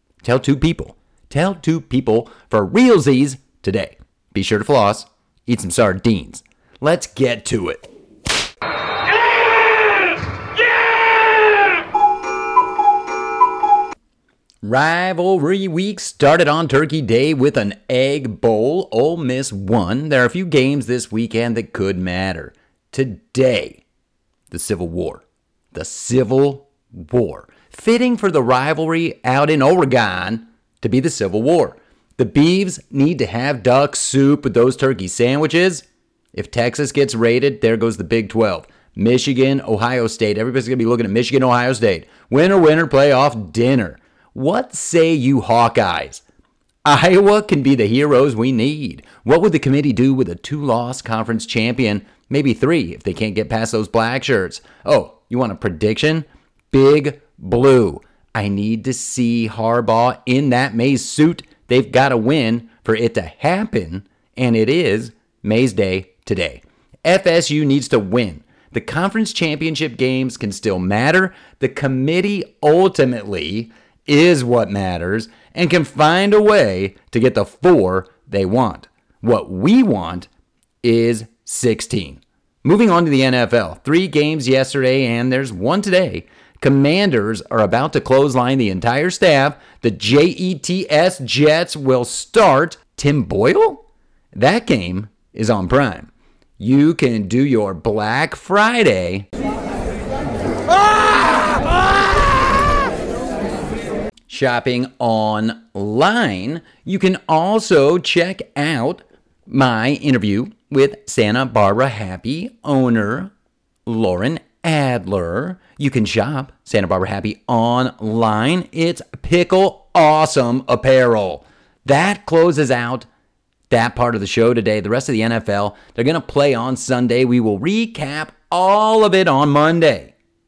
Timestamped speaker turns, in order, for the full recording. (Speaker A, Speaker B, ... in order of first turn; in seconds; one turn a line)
Speaker A: 0.2-7.9
Speaker A: 14.6-23.8
Speaker A: 24.5-46.2
Speaker A: 46.8-80.3
Speaker A: 80.8-99.3
Speaker A: 104.3-113.3
Speaker A: 113.8-123.1
Speaker A: 123.7-130.1